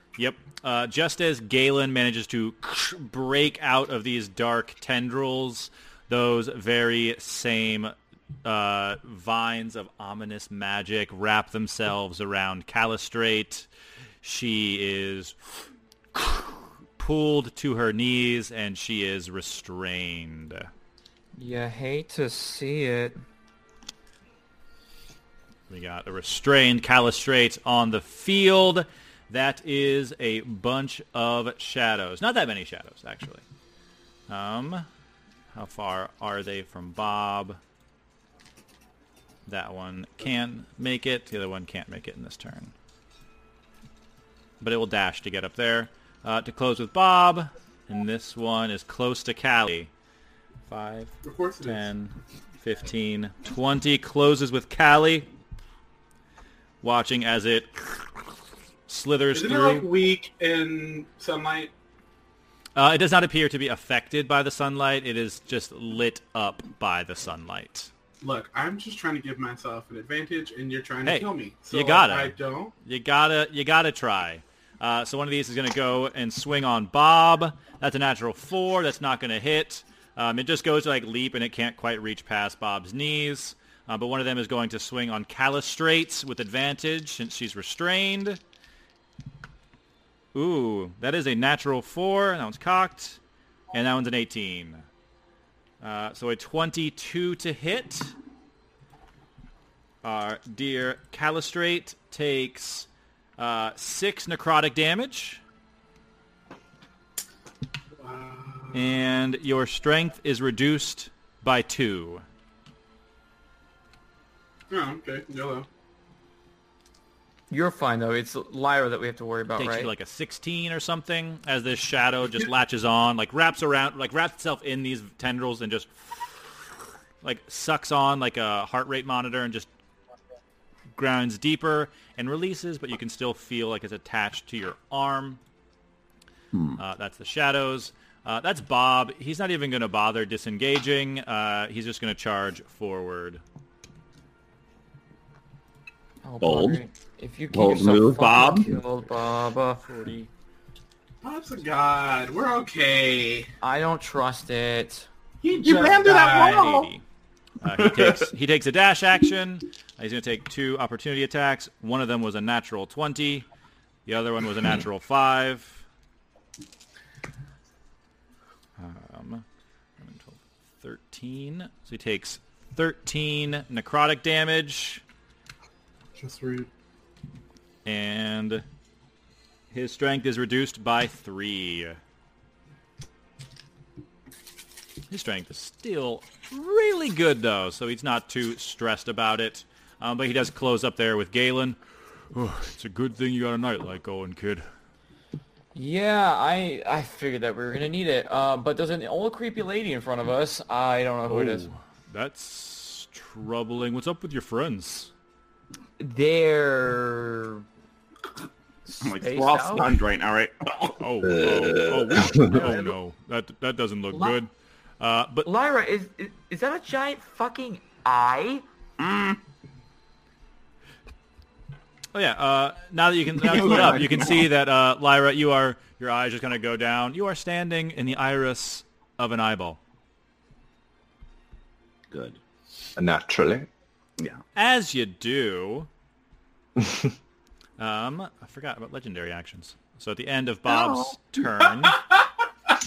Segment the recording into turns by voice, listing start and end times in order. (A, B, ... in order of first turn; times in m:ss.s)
0:00.2-0:13.7 A
0:14.2-0:15.3 A
0:16.1-0:20.7 A
0:21.4-0:23.2 B
0:25.7-0:33.4 A
0:34.3-0:34.8 A
0:35.5-0:37.6 A
0:39.5-0:42.7 A
0:44.6-0:49.9 A
0:50.7-0:55.3 A
0:51.2-0:51.9 C
0:56.8-0:58.3 A
0:58.9-0:59.9 A
0:59.3-1:01.7 C
1:02.8-1:07.9 A
1:08.2-1:12.7 C
1:11.0-1:28.4 A
1:30.3-1:33.2 A
1:33.7-1:34.8 A
1:35.8-1:38.1 A
1:40.0-1:45.4 A
1:48.0-1:49.0 C
1:48.7-1:52.2 A
1:54.7-1:55.7 C
1:57.5-1:59.9 B
1:59.6-2:06.6 A
2:07.2-2:09.7 A
2:11.0-2:15.4 A
2:16.5-2:16.8 D
2:16.8-2:23.4 A
2:26.2-2:30.3 B
2:26.4-2:26.8 D
2:27.5-2:28.7 D
2:31.2-2:33.5 C
2:33.6-2:35.1 B
2:35.4-2:36.8 C
2:35.5-2:36.9 D
2:35.9-2:37.0 A
2:37.6-2:43.4 A
2:37.8-2:38.1 D
2:44.0-2:45.8 A
2:48.8-2:49.4 A
2:50.0-2:55.0 A
2:56.2-2:56.7 C
2:57.8-2:58.6 A
2:59.7-3:02.0 A
3:05.1-3:11.8 A
3:12.3-3:14.6 A
3:15.7-3:21.7 B
3:21.3-3:25.1 A
3:26.0-3:27.6 B
3:28.8-3:30.0 B
3:29.0-3:30.9 D
3:31.0-3:34.5 A
3:31.2-3:32.6 E
3:34.1-3:34.4 B
3:35.0-3:35.5 A
3:35.4-3:38.6 B
3:39.0-3:39.4 D
3:42.1-3:49.8 A
3:43.4-3:44.5 D
3:52.1-3:52.4 D
3:53.0-3:53.7 E
3:54.5-3:55.9 A
3:57.8-4:02.0 A
4:00.6-4:01.1 D
4:01.8-4:02.1 C